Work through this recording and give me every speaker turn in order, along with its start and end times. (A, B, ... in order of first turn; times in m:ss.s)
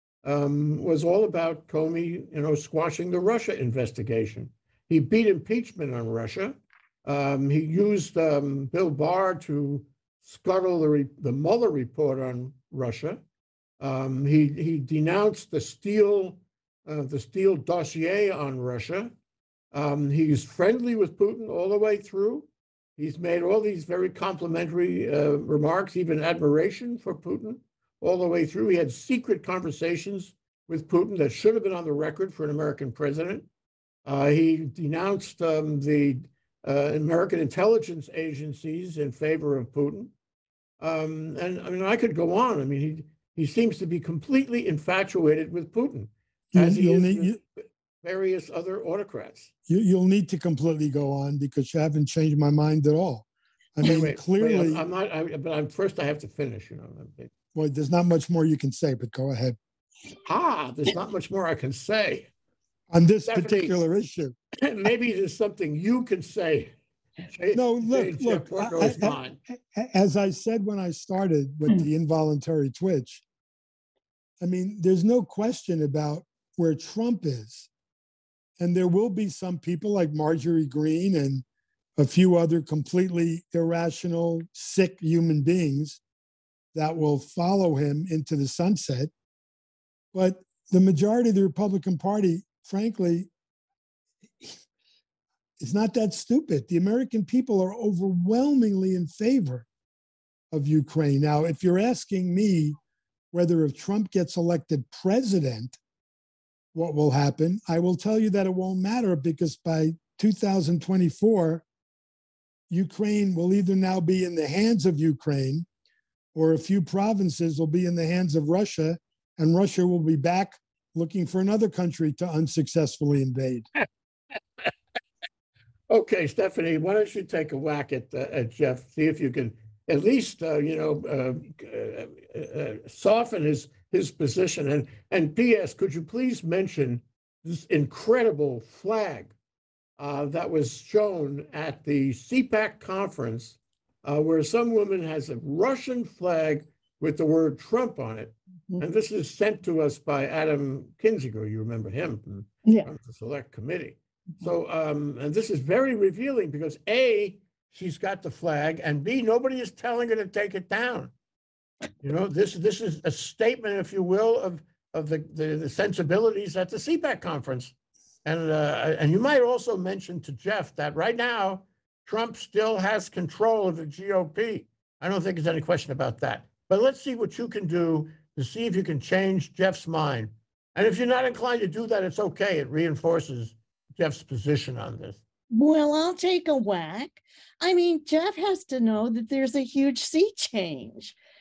0:00.2-0:13.2 A
0:13.8-0:19.1 A
0:19.7-0:33.5 A
0:34.0-0:40.1 A
0:40.8-0:49.5 A
0:46.5-0:47.4 B
0:49.7-0:54.8 B
0:53.8-0:57.3 A
0:57.5-0:59.6 B
1:00.2-1:02.3 A
1:02.9-1:04.3 B
1:03.2-1:03.8 A
1:04.6-1:06.7 A
1:07.3-1:09.4 A
1:07.5-1:13.2 B
1:14.4-1:17.7 B
1:18.6-1:21.4 B
1:22.0-1:26.0 B
1:26.7-1:29.1 B
1:30.1-1:33.3 B
1:35.6-1:39.6 B
1:40.5-1:42.8 B
1:43.3-1:45.8 B
1:46.7-1:51.6 B
1:52.7-1:55.6 B
1:56.3-2:03.7 B
2:05.9-2:19.3 A
2:20.0-2:41.1 A
2:42.0-2:47.7 A
2:48.2-3:05.2 A
3:05.5-3:11.1 C